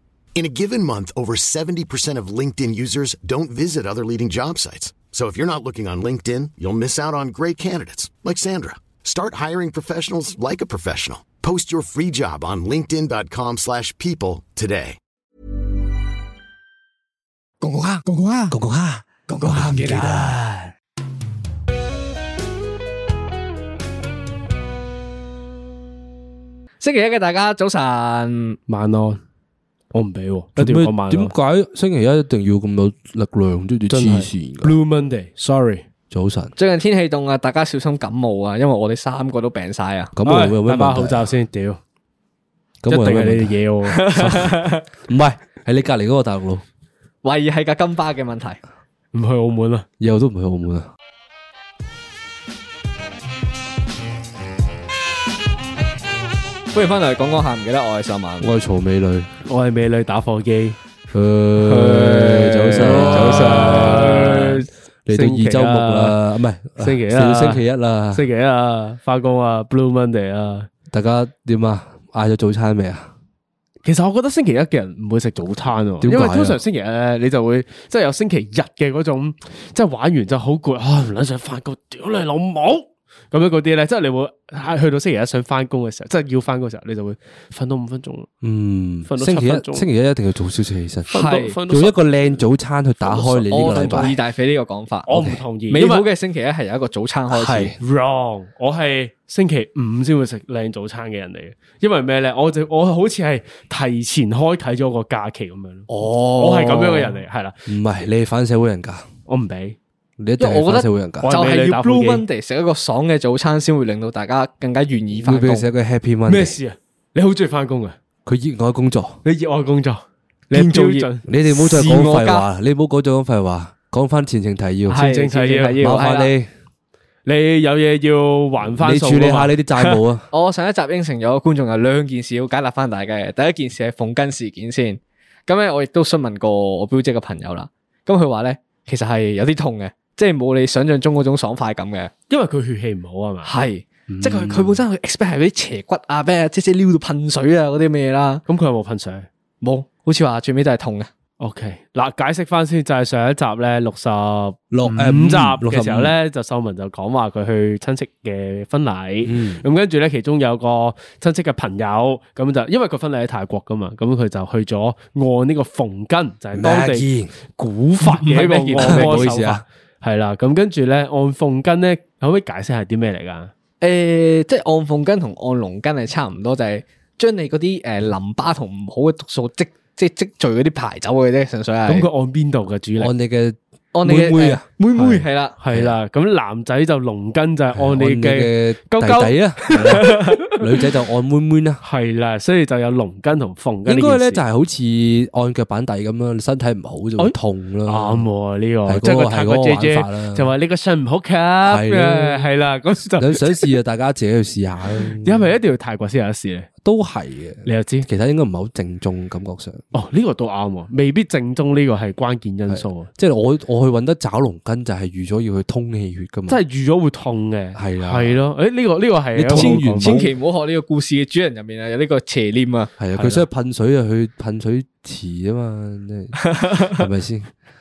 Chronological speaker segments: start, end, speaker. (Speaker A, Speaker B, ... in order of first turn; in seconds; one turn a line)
Speaker A: 0.4-15.0
Speaker B: 17.7-18.5
Speaker C: 18.5-20.7
Speaker B: 19.4-20.1
Speaker B: 26.8-28.6
Speaker D: 28.7-29.2
Speaker D: 29.9-31.3
Speaker C: 30.6-34.7
Speaker D: 33.9-35.8
Speaker C: 36.1-36.5
Speaker B: 36.6-40.1
Speaker C: 40.1-41.2
Speaker D: 40.2-41.8
Speaker C: 42.8-43.5
Speaker D: 42.9-44.5
Speaker B: 44.1-44.8
Speaker C: 44.2-44.5
Speaker C: 45.1-46.6
Speaker B: 47.2-48.6
Speaker D: 49.1-49.9
Speaker C: 50.0-50.9
Speaker B: 56.7-58.5
Speaker C: 58.4-59.3
Speaker D: 59.5-60.8
Speaker C: 61.1-64.5
Speaker B: 61.8-62.2
Speaker D: 61.9-66.2
Speaker B: 62.7-64.5
Speaker C: 65.1-68.2
Speaker D: 66.8-70.7
Speaker C: 70.9-73.1
Speaker D: 73.8-88.3
Speaker C: 76.0-76.6
Speaker C: 88.4-91.1
Speaker D: 89.1-89.9
Speaker D: 91.1-92.4
Speaker B: 91.1-91.6
Speaker C: 91.7-94.2
Speaker B: 93.1-95.1
Speaker D: 93.7-94.0
Speaker D: 95.1-96.1
Speaker B: 95.7-97.7
Speaker C: 97.3-97.8
Speaker D: 97.8-107.6
Speaker B: 105.9-107.2
Speaker C: 107.7-109.1
Speaker D: 109.3-109.8
Speaker C: 110.2-111.3
Speaker B: 110.4-115.7
Speaker D: 111.2-112.2
Speaker C: 115.2-116.6
Speaker D: 116.3-118.0
Speaker C: 118.2-119.2
Speaker D: 119.2-121.2
Speaker B: 120.5-122.5
Speaker C: 121.3-125.2
Speaker B: 124.9-126.3
Speaker D: 125.0-126.1
Speaker C: 125.8-126.5
Speaker D: 127.3-130.0
Speaker C: 128.8-130.3
Speaker B: 130.3-142.1
Speaker D: 142.3-143.5
Speaker B: 143.4-148.4
Speaker D: 144.1-144.8
Speaker D: 148.5-149.3
Speaker B: 149.6-151.1
Speaker D: 151.4-173.5
Speaker C: 154.7-156.1
Speaker C: 159.2-159.6
Speaker C: 166.6-167.3
Speaker B: 168.0-169.4
Speaker C: 168.8-169.6
Speaker B: 173.8-182.1
Speaker D: 181.9-183.1
Speaker C: 183.0-184.7
Speaker B: 183.9-185.6
Speaker D: 185.0-190.0
Speaker C: 187.8-191.8
Speaker B: 190.1-190.3
Speaker D: 191.8-194.4
Speaker C: 193.9-198.3
Speaker D: 197.2-203.7
Speaker C: 198.9-200.5
Speaker C: 201.7-202.5
Speaker C: 203.2-205.5
Speaker D: 205.0-206.7
Speaker C: 206.8-209.8
Speaker D: 207.7-208.1
Speaker D: 209.9-213.1
Speaker C: 212.7-216.6
Speaker D: 216.5-220.3
Speaker C: 217.8-218.4
Speaker C: 219.3-220.3
Speaker B: 219.5-222.9
Speaker C: 223.0-227.5
Speaker B: 226.5-226.9